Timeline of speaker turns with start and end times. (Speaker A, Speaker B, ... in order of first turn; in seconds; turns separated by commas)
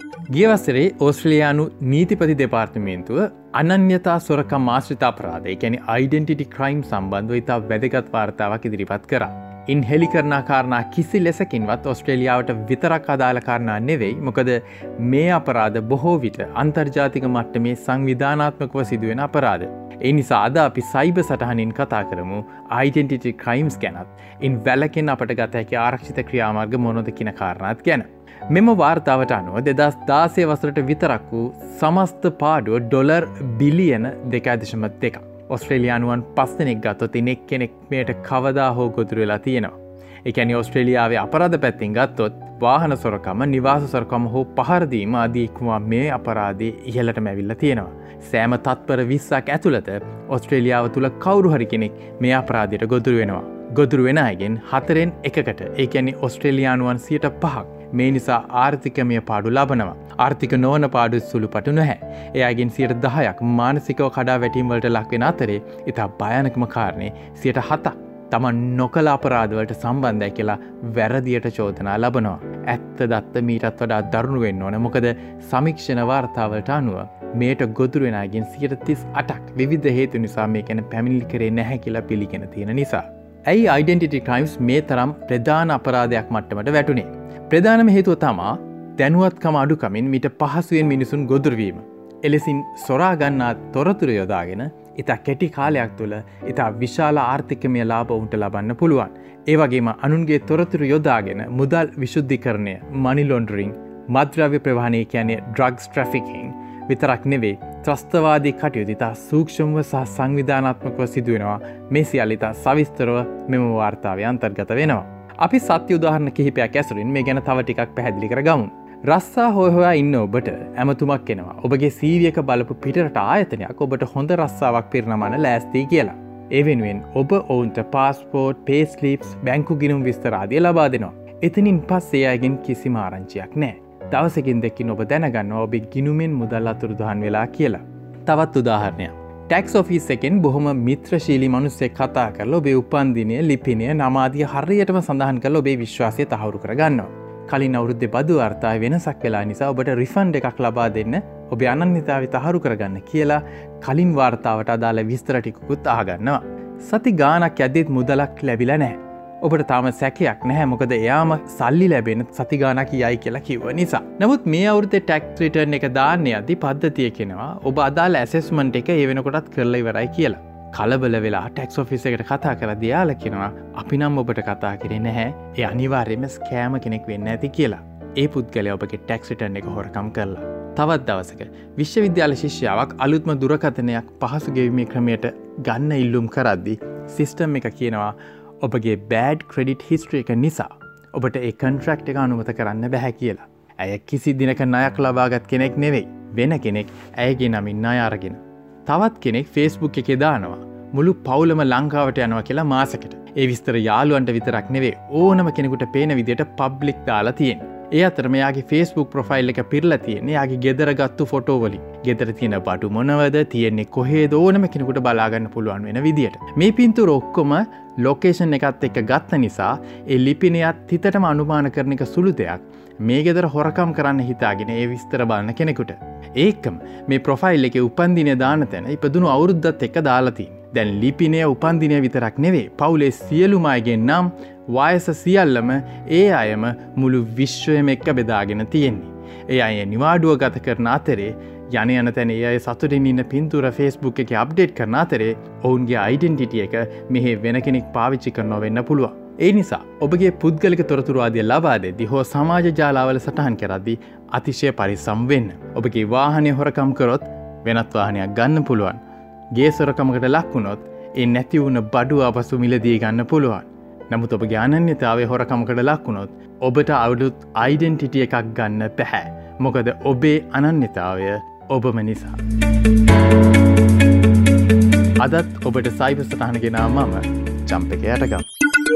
Speaker A: 0.3-259.0, Speaker A: 259.5-272.4, Speaker A: 275.2-278.4